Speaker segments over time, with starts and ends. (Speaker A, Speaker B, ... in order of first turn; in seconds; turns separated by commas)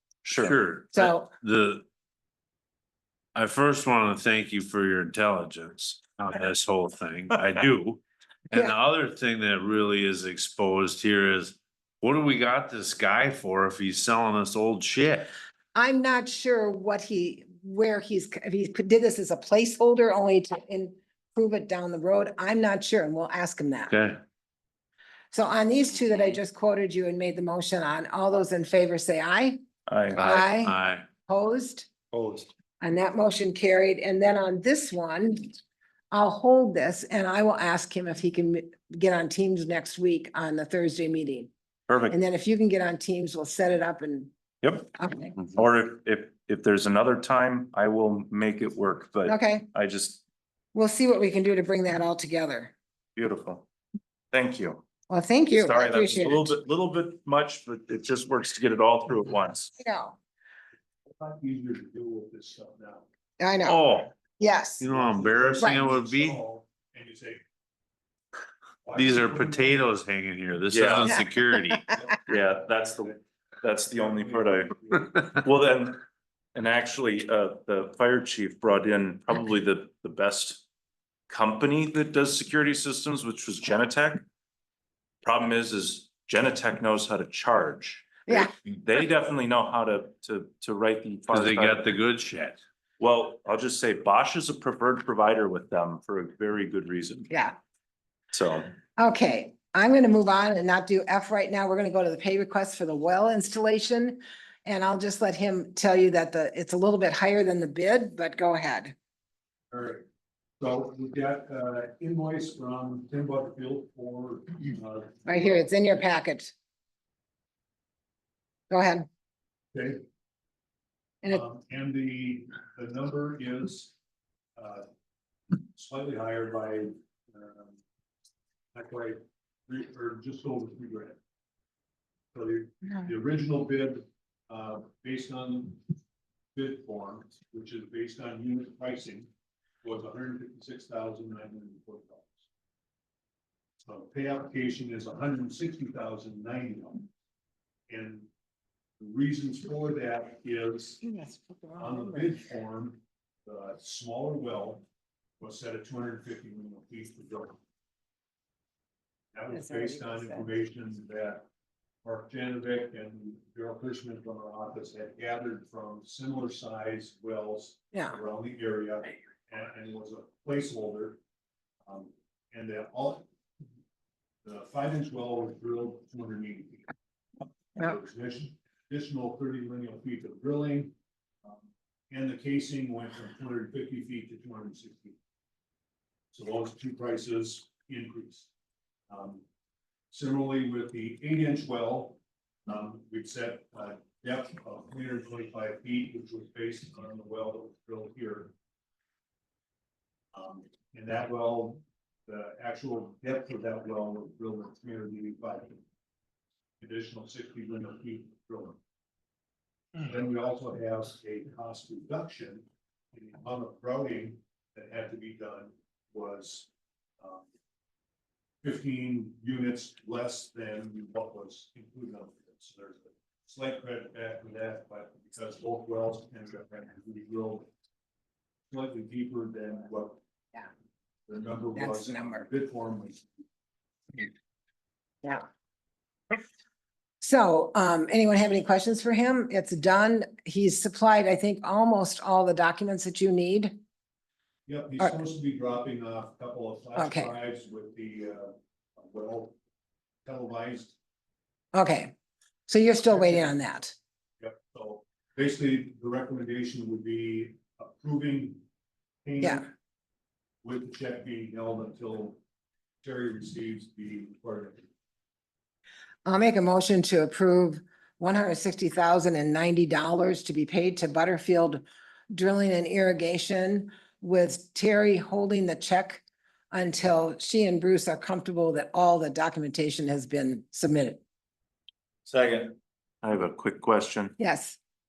Speaker A: 0.2-0.6, Speaker B: 0.4-1.8, Speaker C: 0.9-1.3, Speaker B: 3.3-15.3, Speaker C: 15.7-23.9, Speaker B: 23.9-24.2, Speaker C: 25.3-29.6, Speaker A: 29.9-30.2, Speaker B: 30.1-31.0, Speaker C: 30.2-31.9, Speaker A: 32.1-32.5, Speaker C: 32.8-35.6, Speaker C: 36.1-41.5, Speaker A: 41.9-42.2, Speaker C: 42.1-44.3, Speaker A: 44.6-44.9, Speaker C: 44.9-45.4, Speaker A: 45.4-50.2, Speaker C: 49.2-49.7, Speaker C: 50.7-52.7, Speaker A: 53.1-53.6, Speaker A: 54.3-54.8, Speaker C: 55.1-56.5, Speaker A: 55.6-59.7, Speaker C: 59.8-60.2, Speaker D: 61.1-63.1, Speaker C: 63.4-63.8, Speaker B: 63.6-64.1, Speaker C: 64.4-64.8, Speaker B: 64.8-66.4, Speaker D: 64.8-67.4, Speaker D: 68.8-69.8, Speaker B: 68.9-71.8, Speaker A: 70.7-71.1, Speaker C: 71.0-72.0, Speaker D: 71.9-72.3, Speaker A: 72.2-76.0, Speaker D: 73.9-75.1, Speaker A: 76.5-80.6, Speaker A: 81.3-84.2, Speaker A: 85.2-91.9, Speaker B: 91.3-92.6, Speaker A: 93.0-97.3, Speaker C: 97.3-97.5, Speaker A: 98.3-98.7, Speaker C: 99.0-108.9, Speaker D: 109.7-110.0, Speaker D: 110.6-115.7, Speaker C: 115.2-116.5, Speaker C: 118.7-119.1, Speaker D: 119.7-120.0, Speaker D: 121.3-124.0, Speaker D: 124.5-124.9, Speaker D: 125.7-127.8, Speaker D: 128.7-131.2, Speaker D: 132.3-135.8, Speaker D: 136.5-139.3, Speaker D: 139.8-142.4, Speaker D: 143.8-147.1, Speaker D: 147.9-148.3, Speaker D: 149.0-151.0, Speaker C: 151.0-152.3, Speaker D: 151.8-154.8, Speaker D: 155.4-157.6, Speaker D: 159.3-161.4, Speaker C: 159.5-160.5, Speaker D: 162.0-171.2, Speaker D: 171.8-173.3, Speaker D: 174.4-176.8, Speaker D: 177.8-180.9, Speaker D: 181.4-185.2, Speaker D: 186.3-188.5, Speaker D: 189.1-189.4, Speaker D: 190.1-198.5, Speaker D: 200.3-205.8, Speaker D: 206.8-208.8, Speaker D: 210.0-216.7, Speaker D: 217.2-217.5, Speaker D: 218.6-227.7, Speaker D: 228.7-230.2, Speaker D: 231.3-233.3, Speaker C: 231.7-232.4, Speaker C: 237.2-243.8, Speaker D: 244.7-249.6, Speaker C: 247.0-247.3, Speaker D: 250.2-250.9, Speaker C: 251.7-252.1, Speaker C: 252.7-253.9, Speaker D: 253.1-253.8, Speaker D: 254.4-258.6, Speaker D: 259.2-259.7, Speaker D: 260.6-262.4, Speaker D: 263.0-264.9, Speaker C: 266.2-281.2, Speaker A: 282.2-284.4, Speaker C: 284.4-284.8